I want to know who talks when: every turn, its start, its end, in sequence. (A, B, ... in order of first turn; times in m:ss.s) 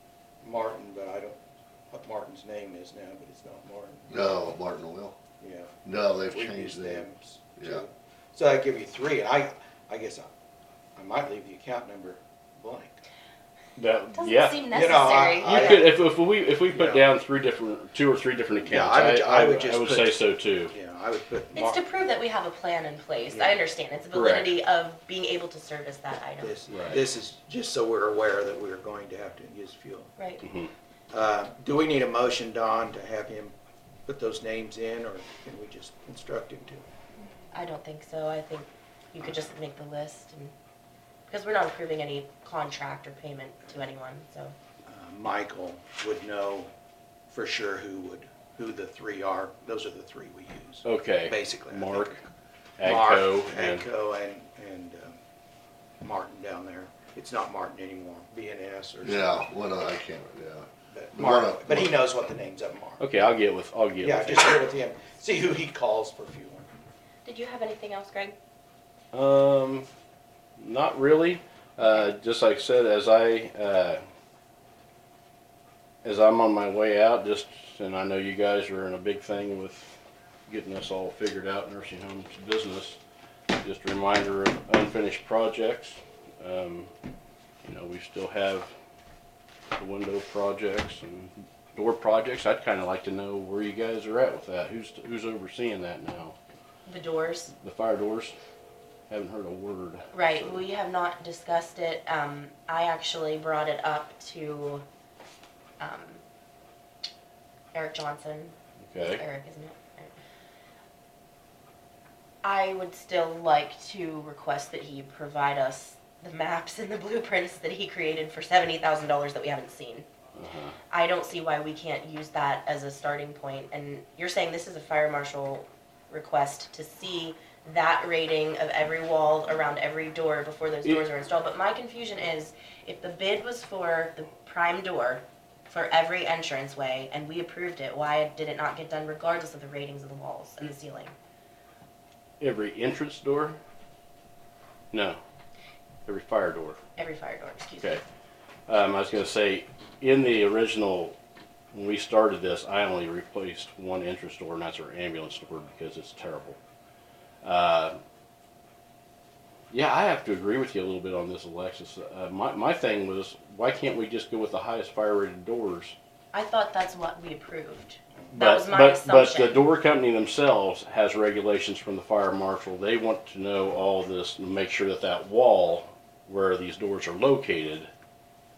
0:00.4-0:04.4 A
0:04.1-0:05.2 B
0:05.4-0:10.3 A
0:05.8-0:07.0 B
0:07.6-0:07.8 B
0:11.0-0:13.0 A
0:13.8-0:20.7 C
0:14.1-0:15.8 D
0:14.7-0:15.9 A
0:16.7-0:17.1 A
0:18.6-0:21.8 A
0:21.6-0:26.6 D
0:23.3-0:23.6 A
0:24.1-0:24.6 C
0:26.4-0:30.1 A
0:26.7-0:27.0 C
0:30.2-0:30.4 D
0:30.4-0:30.7 C
0:31.1-0:33.6 A
0:34.0-0:36.8 A
0:37.5-0:40.5 D
0:41.3-0:44.5 D
0:44.9-0:46.7 A
0:47.3-0:52.2 A
0:50.8-0:52.2 C
0:52.8-0:53.8 C
0:52.8-0:55.2 A
0:56.0-0:59.4 A
0:59.0-1:01.9 B
1:00.9-1:03.0 A
1:03.0-1:04.7 C
1:04.0-1:06.7 A
1:07.2-1:08.4 D
1:09.1-1:09.9 C
1:10.6-1:14.0 C
1:16.0-1:23.0 C
1:23.6-1:26.9 C
1:27.6-1:28.7 C
1:29.8-1:36.4 C
1:36.9-1:37.5 D
1:37.5-1:38.3 C
1:39.1-1:40.6 C
1:40.1-1:44.8 D
1:45.8-1:46.2 D
1:47.7-1:50.1 D
1:48.9-1:49.2 C
1:52.4-2:00.1 D
2:00.3-2:00.8 C
2:00.9-2:21.1 D
2:22.4-2:23.6 C
2:24.9-2:25.2 C
2:26.1-2:26.8 C
2:27.0-2:28.0 D
2:28.7-2:31.1 C
2:31.7-2:36.6 C
2:37.4-2:38.0 C
2:39.7-2:45.9 C
2:46.3-2:49.6 D
2:48.3-2:57.9 C